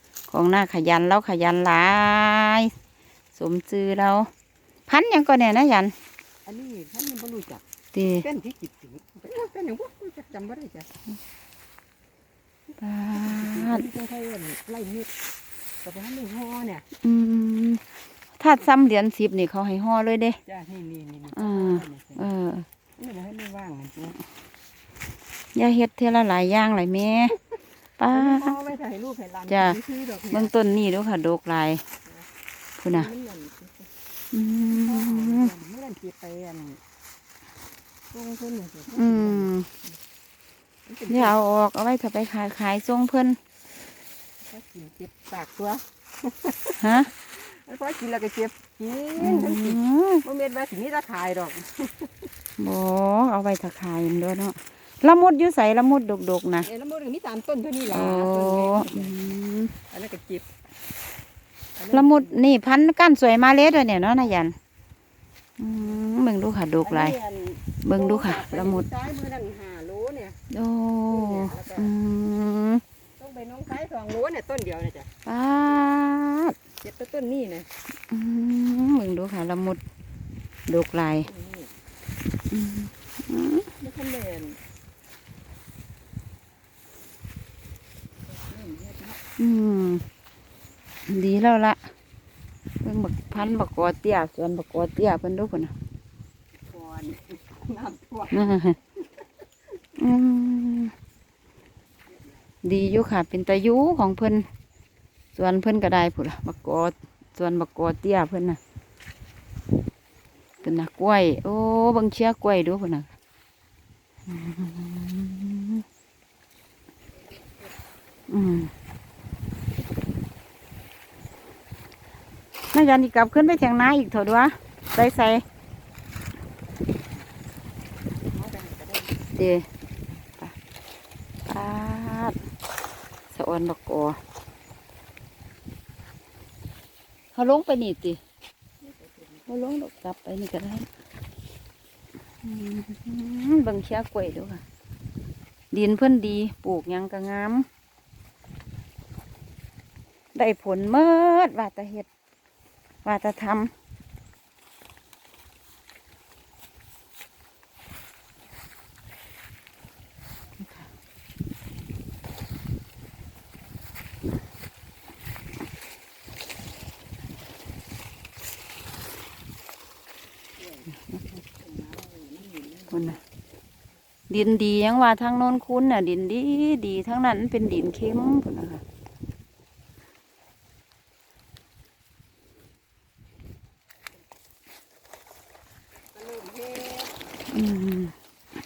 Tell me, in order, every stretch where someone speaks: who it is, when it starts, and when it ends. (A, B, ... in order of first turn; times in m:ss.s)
0:00.3-0:02.7 A
0:03.3-0:04.3 A
0:04.9-0:05.9 A
0:06.4-0:07.6 B
0:07.9-0:08.3 A
0:08.2-0:10.9 B
0:12.8-0:13.8 A
0:13.1-0:15.1 B
0:15.8-0:16.8 B
0:17.0-0:17.8 A
0:18.4-0:20.4 A
0:20.4-0:22.3 B
0:21.3-0:22.6 A
0:23.0-0:24.2 B
0:25.5-0:27.3 A
0:28.0-0:28.6 A
0:28.1-0:30.5 B
0:29.5-0:29.8 A
0:30.3-0:31.8 A
0:32.8-0:33.1 A
0:32.9-0:33.9 B
0:34.3-0:35.5 A
0:34.7-0:36.8 B
0:38.1-0:40.0 B
0:39.0-0:39.7 A
0:40.8-0:41.4 B
0:41.1-0:43.4 A
0:44.4-0:52.3 B
0:46.8-0:47.1 A
0:49.2-0:50.2 A
0:52.6-0:56.7 A
0:56.6-0:59.4 B
0:57.9-0:59.7 A
0:59.9-1:00.4 B
1:01.8-1:02.5 B
1:01.9-1:04.5 A
1:05.6-1:07.2 A
1:06.8-1:10.4 B
1:07.8-1:08.8 A
1:10.5-1:12.8 A
1:11.1-1:11.9 B
1:13.2-1:15.1 B
1:15.2-1:16.6 A
1:16.8-1:17.7 B
1:18.1-1:19.8 A
1:20.7-1:21.3 A
1:21.0-1:21.7 B
1:22.5-1:23.7 A
1:23.8-1:24.6 B
1:28.3-1:29.2 B
1:29.4-1:30.0 A
1:31.0-1:31.8 A
1:32.8-1:35.7 A
1:36.5-1:38.6 B
1:38.3-1:38.8 A
1:40.0-1:40.9 A
1:42.6-1:44.5 A
1:45.3-1:48.6 A
1:50.6-1:53.1 A
1:54.3-1:55.8 A
1:58.3-1:58.7 A
2:02.7-2:05.4 A
2:08.2-2:09.2 B
2:09.4-2:09.7 A
2:11.4-2:12.4 A
2:13.3-2:14.2 A
2:17.3-2:18.2 A
2:18.8-2:19.6 B
2:19.5-2:20.9 A
2:22.4-2:24.6 A
2:25.7-2:27.7 A
2:30.3-2:32.1 A
2:33.0-2:33.7 A
2:40.6-2:40.9 A
2:50.6-2:50.9 B
2:51.5-2:53.2 B
2:52.9-2:53.2 A
2:54.3-2:58.8 A
3:06.1-3:07.2 B
3:07.5-3:08.1 A